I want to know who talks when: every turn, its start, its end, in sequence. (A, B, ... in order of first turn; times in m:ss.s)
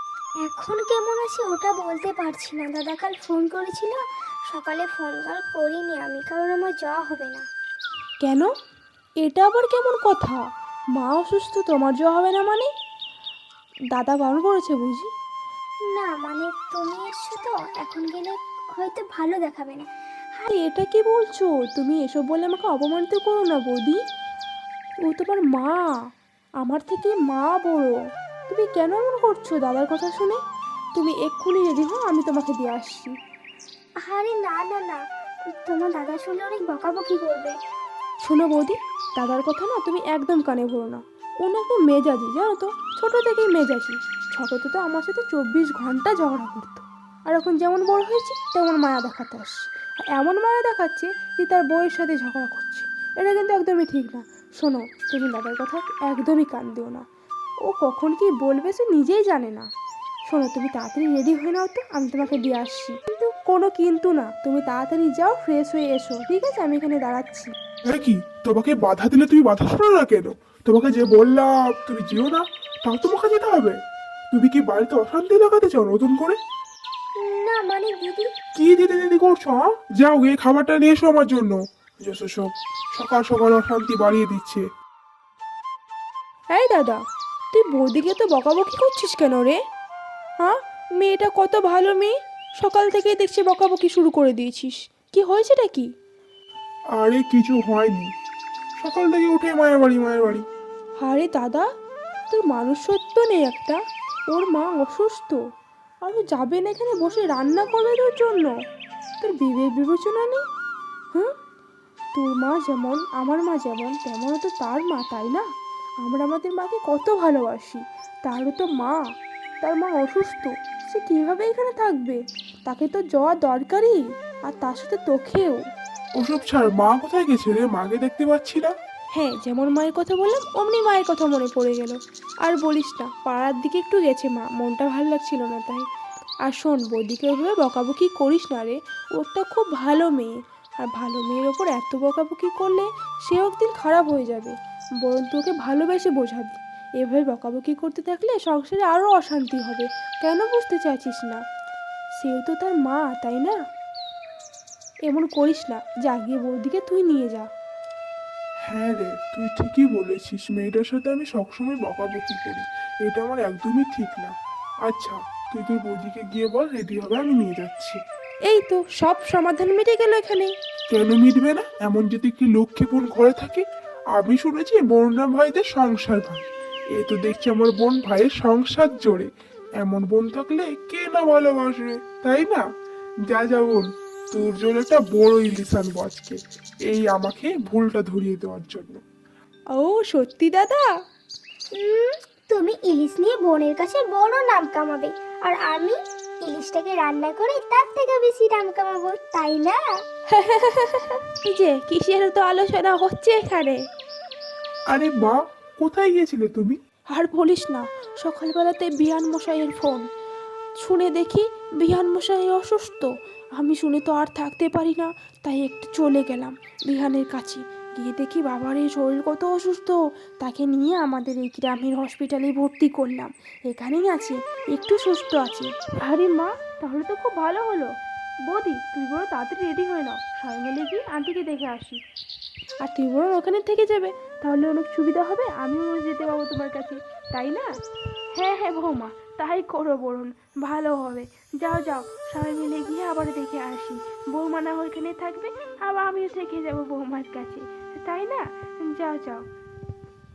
0:00.4-0:07.4 A
0:08.2-0:08.5 B
0:09.2-0:10.4 B
0:11.0-0:12.7 B
0:13.9-0:15.1 B
0:15.9-0:19.9 A
0:20.5-0:24.0 B
0:25.1-0:25.9 B
0:26.6-0:27.9 B
0:28.5-0:30.4 B
0:31.0-0:33.1 B
0:34.0-0:35.0 A
0:35.6-0:37.6 A
0:38.2-0:57.0 B
0:57.7-0:59.7 B
1:00.3-1:07.5 B
1:07.9-1:13.8 C
1:14.3-1:16.4 C
1:17.2-1:18.3 A
1:18.6-1:24.6 C
1:26.5-1:27.0 B
1:27.5-1:29.6 B
1:30.4-1:35.9 B
1:37.0-1:38.1 C
1:38.8-1:40.4 C
1:41.0-1:41.6 B
1:42.3-1:43.8 B
1:44.3-1:45.4 B
1:46.0-1:48.5 B
1:49.2-1:50.4 B
1:52.2-1:55.4 B
1:56.0-1:59.0 B
1:59.6-2:05.6 B
2:06.2-2:08.7 C
2:09.2-2:15.8 B
2:16.4-2:31.4 B
2:32.2-2:33.6 B
2:35.0-2:37.5 B
2:38.6-2:44.3 C
2:44.8-2:48.0 C
2:48.5-2:50.5 B
2:50.9-2:59.3 C
2:59.8-3:02.6 C
3:03.3-3:09.0 C
3:09.7-3:10.8 B
3:11.7-3:19.8 A
3:20.3-3:23.8 B
3:24.9-3:26.8 C
3:27.1-3:30.0 B
3:30.8-3:47.9 B
3:48.5-3:52.0 B
3:52.8-3:57.7 B
3:58.3-4:09.4 B